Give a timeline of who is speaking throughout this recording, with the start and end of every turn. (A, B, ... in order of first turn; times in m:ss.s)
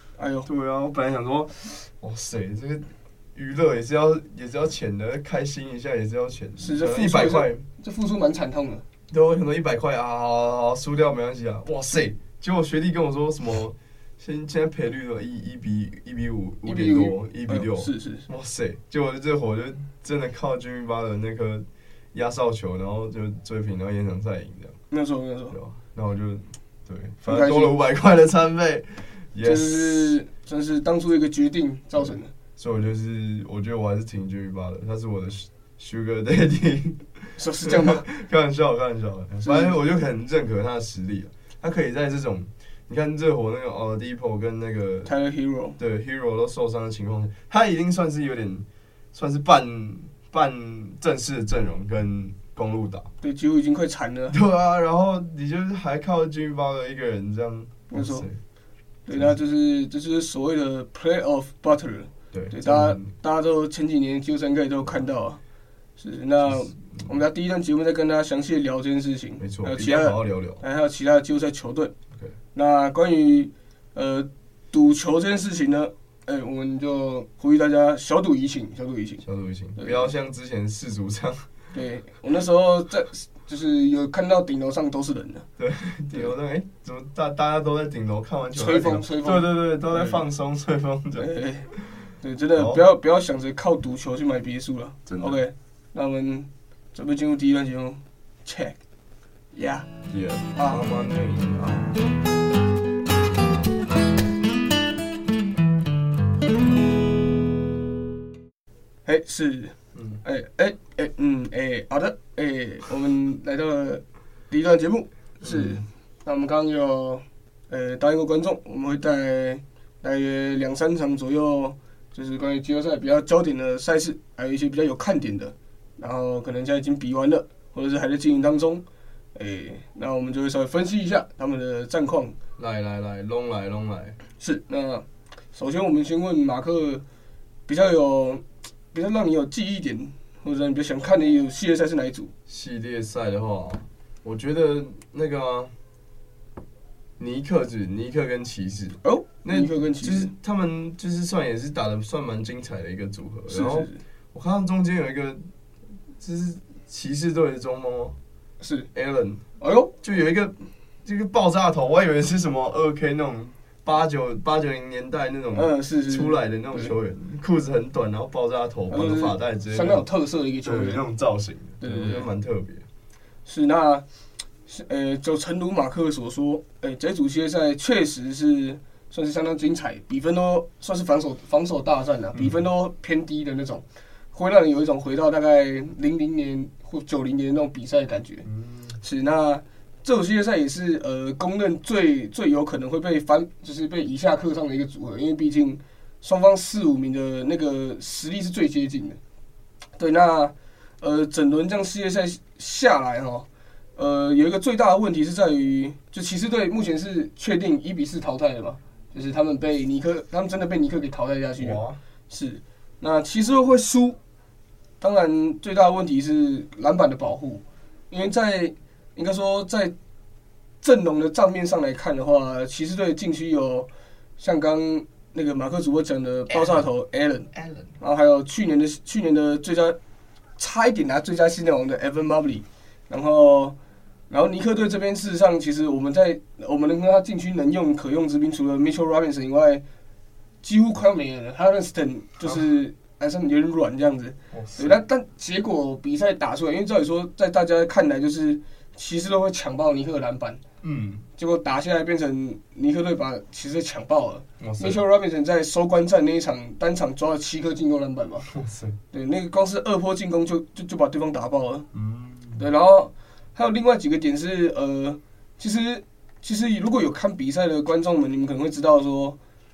0:00.2-0:00.5 A
0:00.4-0:07.6 B
0:06.6-0:08.8 A
0:09.1-0:24.8 B
0:16.6-0:18.2 A
0:24.9-0:25.6 A
0:25.5-0:30.2 B
0:27.3-0:27.7 A
0:29.4-0:32.3 A
0:32.0-0:45.1 B
0:37.4-0:38.1 A
0:39.4-0:39.7 A
0:45.0-0:45.8 A
0:45.8-0:53.1 B
0:53.2-0:54.4 A
0:54.3-0:58.4 B
0:57.9-0:58.3 A
0:59.1-1:05.4 A
1:02.3-1:03.1 B
1:06.0-1:11.9 A
1:06.4-1:07.1 B
1:09.4-1:10.6 B
1:12.5-1:19.2 A
1:19.2-1:21.5 B
1:19.8-1:20.1 A
1:21.7-1:25.5 A
1:25.6-1:31.8 B
1:28.5-1:30.2 A
1:31.2-1:38.8 A
1:32.5-1:32.8 B
1:35.0-1:35.4 B
1:39.5-1:39.9 A
1:40.1-1:42.1 B
1:40.5-1:40.8 A
1:49.0-2:08.8 A
1:49.9-1:50.2 B
1:55.4-1:55.8 B
2:09.3-2:12.4 A
2:12.6-2:14.2 B
2:14.4-2:17.0 A
2:17.7-2:22.3 A
2:22.5-2:25.7 B
2:27.2-2:35.4 B
2:29.0-2:30.3 A
2:33.5-2:34.0 A
2:36.2-2:38.2 B
2:38.6-2:38.9 A
2:38.9-2:39.4 B
2:39.6-2:39.9 A
2:40.0-2:50.1 B
2:45.5-2:46.9 A
2:48.9-2:51.0 A
2:50.6-2:52.8 B
2:51.8-2:52.3 A
2:53.4-2:54.0 A
2:54.7-3:08.5 A
3:02.3-3:02.6 B
3:08.4-3:09.0 B
3:09.0-3:19.2 A
3:20.0-3:34.2 A
3:31.6-3:32.0 B
3:35.0-3:39.9 A
3:40.8-3:43.9 A
3:44.4-3:50.0 A
3:46.5-3:46.8 B
3:47.5-3:47.9 B
3:50.6-3:53.8 A
3:54.3-3:59.8 A
4:00.6-4:10.6 A
4:04.5-4:05.0 B
4:10.8-4:11.2 B
4:11.4-4:18.5 A
4:14.6-4:15.0 B
4:18.5-4:19.0 B
4:19.1-4:21.9 A
4:21.9-4:22.6 B
4:22.5-4:29.4 A